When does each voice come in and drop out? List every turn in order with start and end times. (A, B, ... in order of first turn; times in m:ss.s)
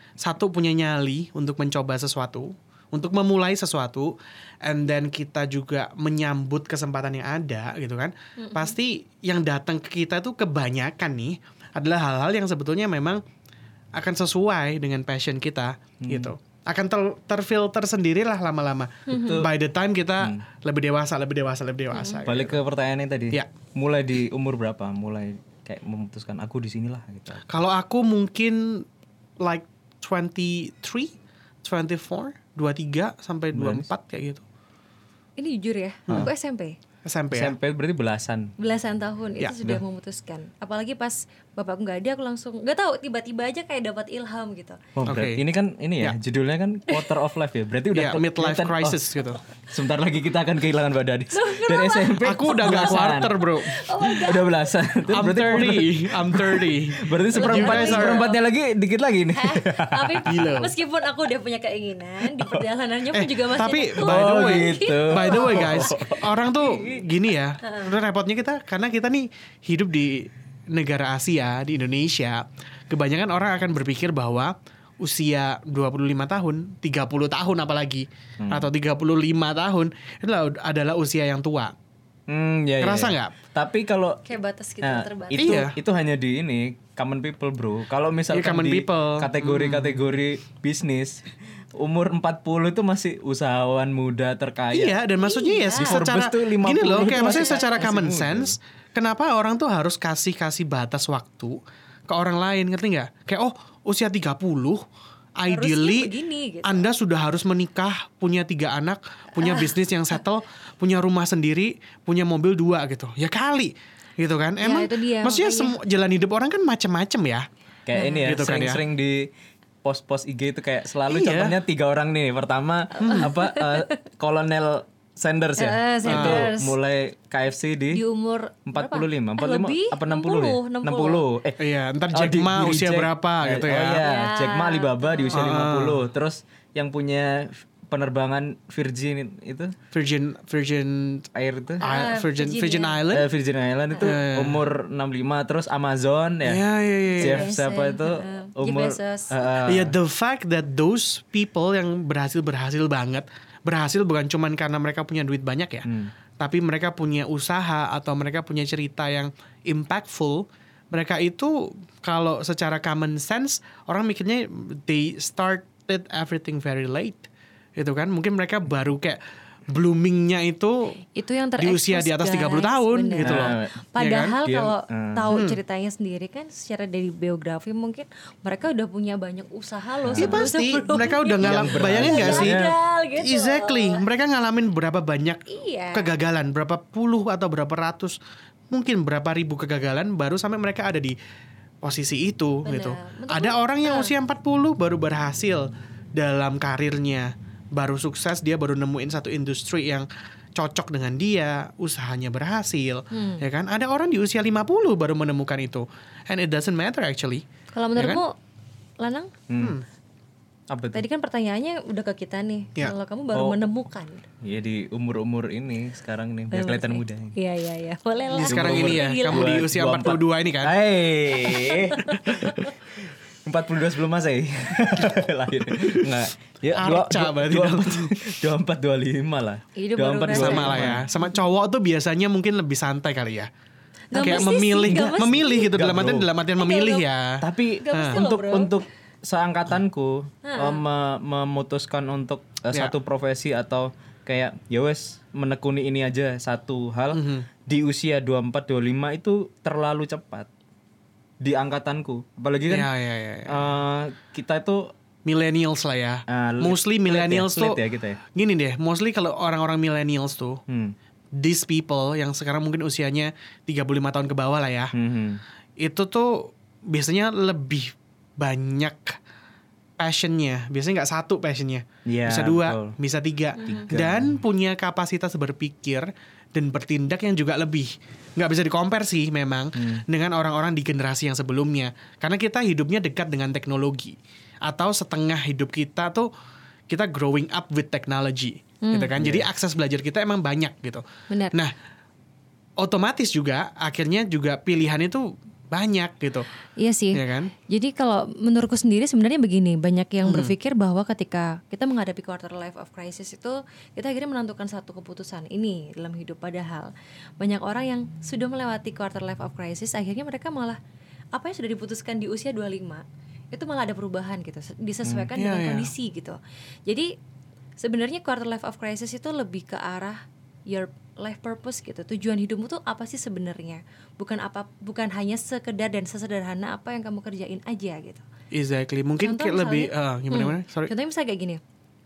0:00.2-0:13.2 A
0:08.4-0:08.8 B
0:14.0-0:22.6 A
0:16.0-0:16.3 C
0:19.1-0:19.4 B
0:19.1-0:19.5 C
0:21.9-0:22.2 B
0:22.2-0:27.4 C
0:27.5-0:28.9 A
0:29.4-0:34.4 A
0:33.5-0:33.9 C
0:35.4-0:36.8 B
0:37.0-0:37.6 A
0:37.3-0:38.5 C
0:38.6-0:44.8 B
0:45.0-0:49.0 C
0:45.0-0:45.4 A
0:47.9-0:49.4 A
0:49.6-0:53.4 C
0:51.3-0:54.7 B
0:52.2-0:53.8 A
0:54.0-1:00.5 C
0:55.1-0:58.3 A
0:57.3-0:58.4 B
0:59.3-1:07.0 B
1:00.3-1:00.7 A
1:02.4-1:02.6 C
1:03.1-1:21.7 A
1:04.0-1:06.2 C
1:07.6-1:07.9 B
1:18.4-1:18.7 C
1:22.3-1:24.2 C
1:22.8-1:23.4 A
1:24.3-1:25.6 B
1:24.8-1:35.0 C
1:25.4-1:25.8 A
1:28.3-1:30.0 A
1:34.7-1:44.8 A
1:35.2-1:36.0 B
1:35.8-1:38.6 C
1:37.2-1:37.9 B
1:45.4-1:46.1 A
1:45.5-1:46.9 B
1:46.6-1:57.5 A
1:49.4-1:49.7 B
1:54.6-1:55.8 B
1:57.9-1:59.3 C
1:58.0-1:58.3 B
1:58.2-1:58.8 A
1:59.8-2:08.0 C
2:01.1-2:01.6 A
2:03.0-2:04.0 B
2:03.0-2:03.3 A
2:05.6-2:06.8 B
2:06.1-2:06.5 A
2:07.9-2:11.2 B
2:08.7-2:11.6 C
2:11.6-2:14.0 A
2:12.1-2:19.8 C
2:14.0-2:15.5 B
2:15.3-2:16.0 A
2:19.9-2:21.3 A
2:21.4-2:21.8 C
2:21.8-2:23.0 B
2:21.8-2:23.3 A
2:23.1-2:26.6 C
2:24.0-2:24.6 A
2:26.4-2:27.5 A
2:27.2-2:29.3 B
2:27.2-2:30.0 C
2:29.6-2:35.9 A
2:35.8-2:36.1 C
2:36.4-2:51.0 A
2:51.2-3:04.0 B
2:51.6-2:54.4 A
2:53.2-2:53.7 C
2:54.4-2:55.3 C
2:55.3-2:55.6 A
3:00.0-3:00.5 C
3:00.2-3:02.6 A
3:01.4-3:02.8 C
3:03.2-3:08.2 A
3:05.5-3:06.1 B
3:08.7-3:11.2 A
3:11.8-3:27.4 A
3:12.6-3:14.1 B
3:23.1-3:23.4 B
3:27.7-3:28.4 B
3:28.0-3:28.2 A
3:29.0-3:29.3 B
3:29.5-3:29.8 C
3:29.6-3:29.8 A
3:30.7-3:31.0 C
3:30.9-3:34.3 B
3:34.4-3:37.4 C
3:36.5-3:39.5 B
3:38.3-3:40.8 A
3:38.5-3:51.1 C
3:41.4-3:42.7 B
3:45.8-3:46.1 A
3:46.8-3:48.3 A
3:49.8-3:51.0 B
3:50.3-3:53.5 A
3:54.1-3:55.7 B
3:54.1-3:58.2 A
3:54.8-3:56.3 C
3:56.6-3:57.0 B
3:57.4-4:10.5 C
3:57.8-3:58.8 B
4:00.4-4:00.8 B
4:07.1-4:07.5 A
4:11.4-4:12.9 C
4:12.7-4:13.6 A
4:13.5-4:14.9 C
4:15.3-4:17.8 A
4:16.3-4:18.2 C
4:18.3-4:20.6 A
4:20.7-4:21.0 C
4:21.4-4:24.9 A
4:24.9-4:25.4 C
4:25.8-4:29.2 A
4:30.0-4:46.3 A
4:32.1-4:33.0 C
4:33.6-4:33.9 B
4:33.7-4:34.4 C
4:39.8-4:40.0 C
4:46.9-4:51.7 A
4:48.8-4:49.1 B
4:49.2-4:49.5 C
4:51.3-4:51.6 B
4:52.8-4:56.5 A
4:56.8-5:10.8 B
4:57.1-4:57.5 A
5:00.2-5:00.5 A
5:11.3-5:17.1 B
5:15.4-5:15.9 A
5:17.8-5:28.2 B
5:28.5-5:30.9 A
5:29.2-5:31.6 B